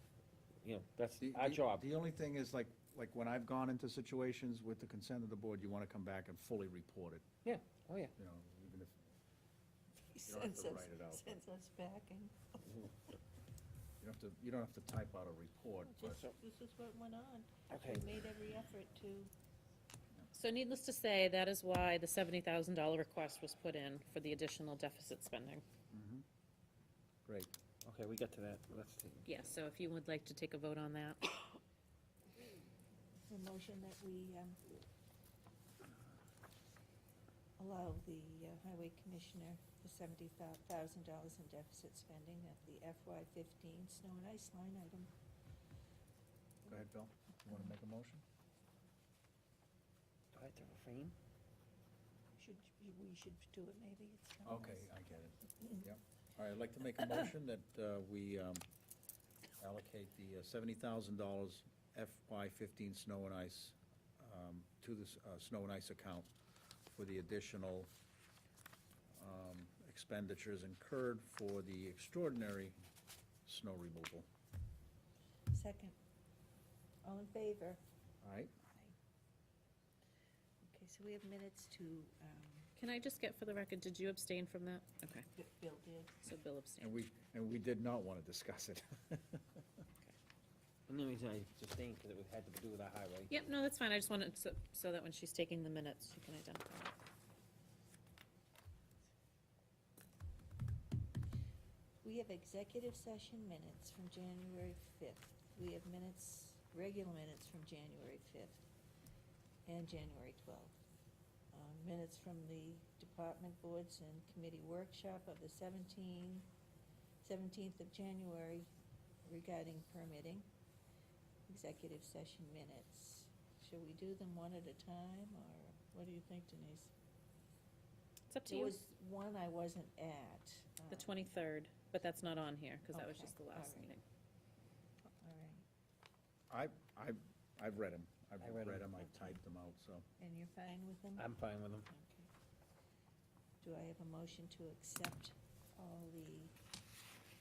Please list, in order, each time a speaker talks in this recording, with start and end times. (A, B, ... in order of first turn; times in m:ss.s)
0:00.6-0:01.8 A
0:01.2-0:07.2 B
0:07.4-0:08.1 A
0:08.2-0:09.0 B
0:10.1-0:12.9 C
0:10.3-0:11.4 B
0:14.0-0:16.2 B
0:15.9-0:19.3 C
0:17.7-0:18.1 A
0:20.3-0:25.6 D
0:25.9-0:26.2 B
0:27.3-0:27.5 B
0:27.8-0:29.3 A
0:29.2-0:31.4 D
0:33.3-0:34.6 C
0:37.6-0:45.1 C
0:46.7-0:48.2 B
0:50.3-0:51.2 A
0:52.4-0:54.9 C
0:54.4-0:58.7 B
0:55.6-0:55.9 C
0:57.0-0:57.2 C
0:59.6-1:06.3 B
1:06.9-1:07.9 B
1:09.2-1:12.8 B
1:13.5-1:14.3 B
1:15.5-1:16.0 C
1:17.0-1:17.8 C
1:18.2-1:18.5 B
1:20.7-1:22.7 C
1:22.8-1:25.2 D
1:25.4-1:26.2 C
1:26.2-1:26.9 D
1:26.8-1:29.6 B
1:30.9-1:33.4 A
1:33.3-1:37.0 D
1:42.0-1:48.6 C
1:49.7-1:50.8 C
1:51.5-1:56.5 C
1:57.2-1:58.7 C
1:59.2-2:00.5 C
2:01.5-2:06.9 C
2:08.3-2:08.8 D
2:08.5-2:11.4 C
2:10.9-2:14.0 D
2:12.9-2:13.9 C
2:15.2-2:15.6 C
2:16.5-2:20.0 B
2:18.4-2:19.0 A
2:19.0-2:19.4 C
2:20.2-2:21.3 C
2:21.2-2:21.9 A
2:21.9-2:22.3 C
2:23.6-2:26.5 C